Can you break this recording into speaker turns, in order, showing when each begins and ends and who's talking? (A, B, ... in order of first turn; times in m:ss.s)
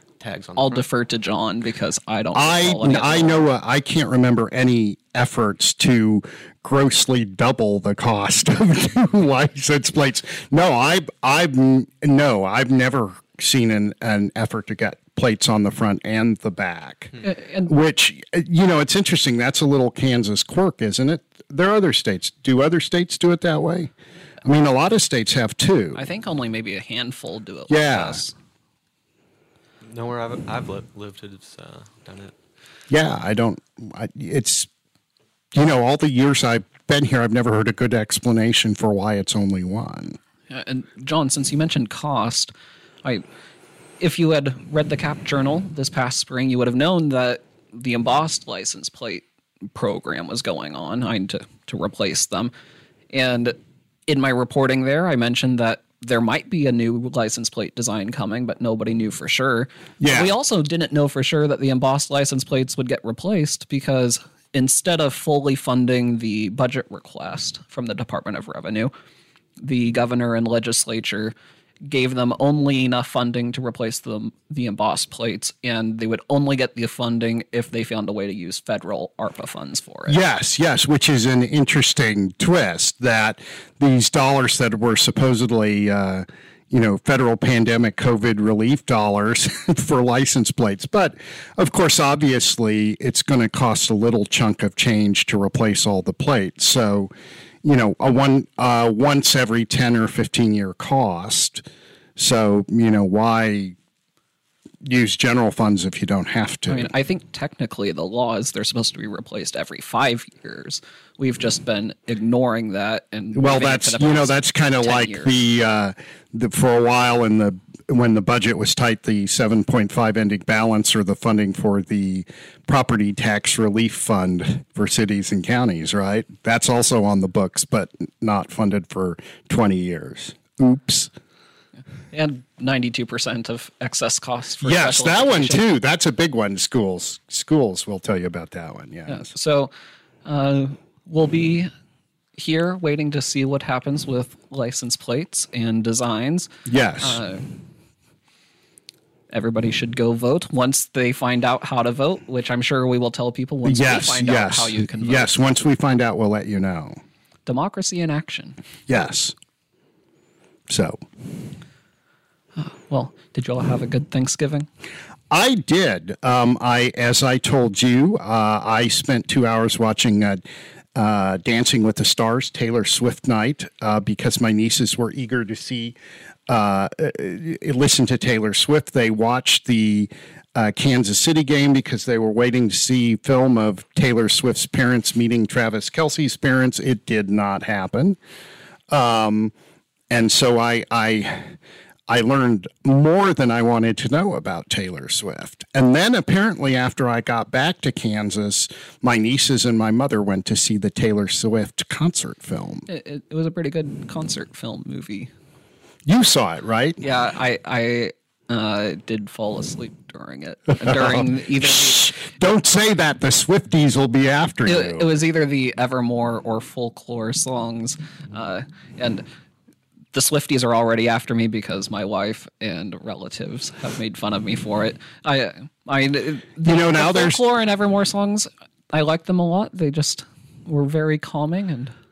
0:00.2-0:00.8 A
0:00.6-0:03.4 B
0:02.3-0:23.9 C
0:17.2-0:17.7 B
0:24.4-0:26.0 C
0:26.0-0:28.3 B
0:27.7-0:28.2 C
0:29.8-0:32.4 A
0:32.9-0:34.7 C
0:35.5-0:40.2 C
0:40.5-0:42.5 B
0:44.0-0:52.5 B
0:53.1-0:53.6 B
0:54.1-1:08.9 B
1:00.0-1:00.3 C
1:09.6-1:11.3 B
1:11.9-1:20.2 B
1:20.1-1:37.1 C
1:37.6-1:41.6 C
1:42.2-1:43.8 C
1:44.8-1:46.9 C
1:46.7-1:55.3 B
1:53.4-2:11.1 C
2:12.1-2:15.6 B
2:14.6-2:19.3 C
2:19.1-2:19.7 B
2:20.2-2:21.7 B
2:22.4-2:27.5 B
2:26.7-2:27.2 C
2:29.3-2:35.3 B
2:33.7-2:37.0 C
2:37.5-2:38.6 B
2:38.9-2:39.4 C
2:40.7-2:41.0 C
2:42.6-2:44.7 B
2:45.3-2:50.4 C
2:51.0-2:56.0 C
2:56.5-3:08.2 C
3:08.9-3:09.5 C
3:10.1-3:11.6 C
3:12.1-3:22.9 C
3:22.9-3:25.3 B
3:26.1-3:27.0 C
3:27.0-3:32.2 B
3:30.8-3:35.1 C
3:34.7-3:39.2 B
3:40.1-3:51.9 B
3:46.6-3:47.4 C